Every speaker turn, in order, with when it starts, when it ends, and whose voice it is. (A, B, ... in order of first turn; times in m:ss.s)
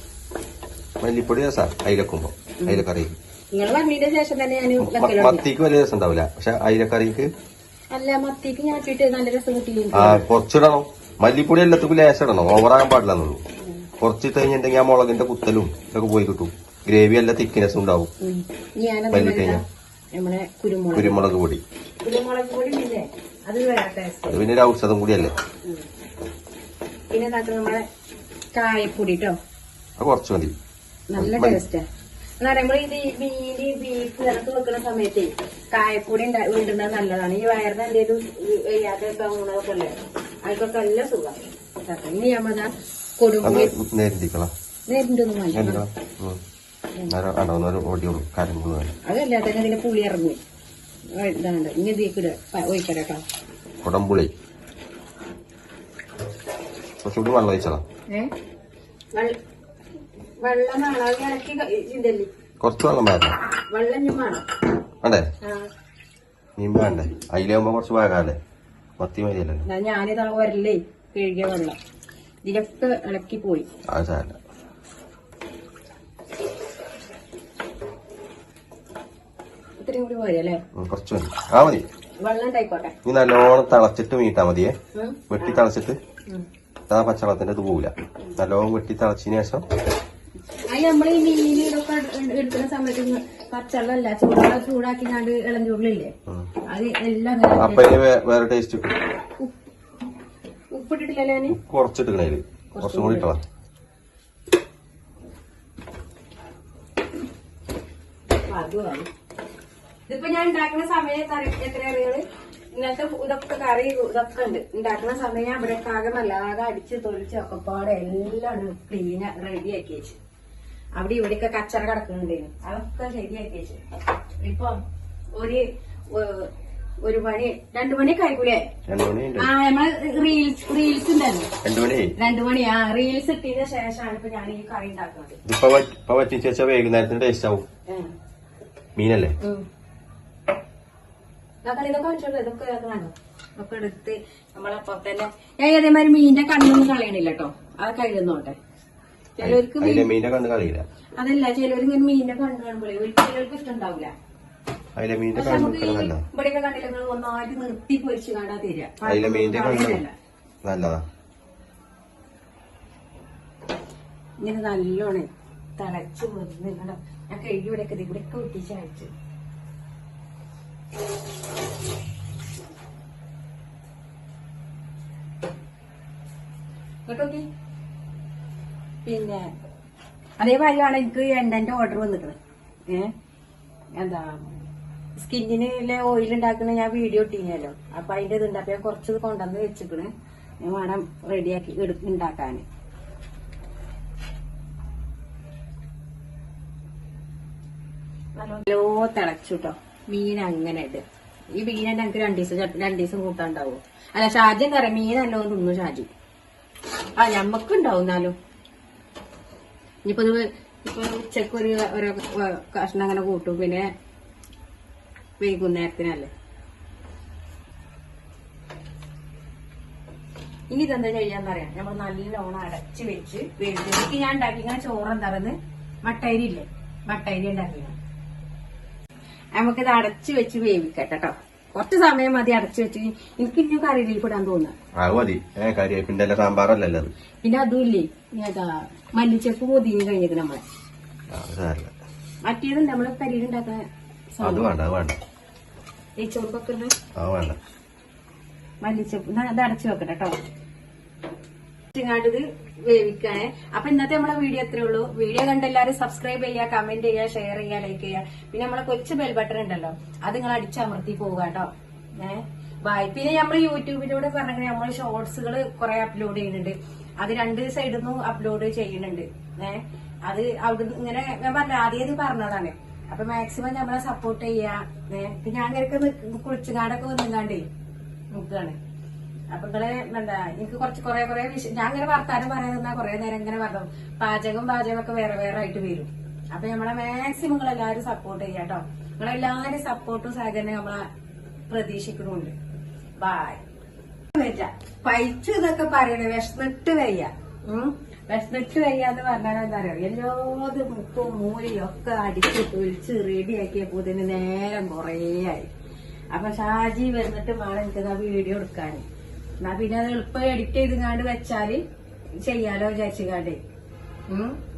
0:01.0-0:03.2 A
0:03.5-0:05.4 B
0:04.8-0:07.3 A
0:07.9-0:10.2 B
0:09.9-0:13.4 A
0:13.6-0:13.9 B
0:14.0-0:18.1 A
0:18.2-0:21.2 B
0:19.1-0:19.6 A
0:21.0-0:21.6 A
0:22.0-0:24.5 B
0:24.3-0:25.4 A
0:27.1-0:27.9 B
0:28.5-0:29.4 B
0:30.0-0:30.6 A
0:31.1-0:31.9 B
0:31.2-0:31.6 A
0:32.4-0:43.7 B
0:43.4-0:44.5 A
0:44.9-0:45.8 B
0:45.5-0:46.4 A
0:47.1-0:49.0 A
0:49.0-0:50.4 B
0:51.1-0:53.2 B
0:53.8-0:54.3 A
0:57.0-0:57.8 A
1:00.4-1:02.3 B
1:02.6-1:03.4 A
1:03.7-1:04.4 B
1:05.4-1:05.7 B
1:06.6-1:08.4 A
1:09.0-1:09.7 A
1:09.7-1:11.8 B
1:12.4-1:13.7 B
1:13.9-1:14.4 A
1:19.8-1:20.6 B
1:20.8-1:21.9 A
1:22.2-1:23.0 B
1:23.0-1:24.7 A
1:25.0-1:25.6 B
1:25.3-1:26.0 A
1:26.9-1:29.6 A
1:30.7-1:36.1 B
1:36.7-1:38.0 B
1:37.6-1:38.9 A
1:40.7-1:41.6 B
1:41.5-1:43.4 A
1:42.8-1:43.3 B
1:48.3-1:49.1 B
1:50.1-2:00.2 B
2:01.0-2:03.8 B
2:04.4-2:04.8 B
2:05.4-2:06.5 B
2:07.0-2:08.7 B
2:08.9-2:09.5 A
2:09.4-2:11.5 B
2:11.6-2:12.1 A
2:12.2-2:15.4 B
2:15.4-2:17.6 A
2:17.9-2:18.1 B
2:19.0-2:19.4 A
2:21.6-2:28.6 B
2:29.4-2:30.1 B
2:29.4-2:30.9 A
2:31.2-2:34.1 B
2:35.0-2:36.2 A
2:35.4-2:40.2 B
2:39.0-2:40.0 A
2:40.6-2:41.0 A
2:44.4-2:49.1 B
2:57.1-2:57.5 B
2:59.0-2:59.5 B
3:00.4-3:02.4 B
3:04.0-3:04.3 B
3:05.2-3:10.1 B
3:10.6-3:12.6 B
3:18.4-3:26.1 B
3:27.2-3:28.4 B
3:30.0-3:33.9 B
3:35.4-3:36.3 B
3:40.7-3:48.0 B
3:49.6-3:54.8 B
3:55.0-3:57.1 A
3:57.4-4:00.6 B
4:01.3-4:01.9 A
4:02.5-4:04.7 B
4:04.4-4:05.2 A
4:06.2-4:06.9 B
4:07.2-4:07.6 A
4:08.8-4:10.4 B
4:11.9-4:37.7 B
4:38.3-4:38.8 B
4:39.5-4:51.1 B
4:51.7-4:52.5 B
4:53.2-4:53.6 B
4:54.3-5:05.7 B
5:06.3-5:09.0 B
5:09.6-5:11.8 B
5:12.4-5:13.6 B
5:14.3-5:14.6 B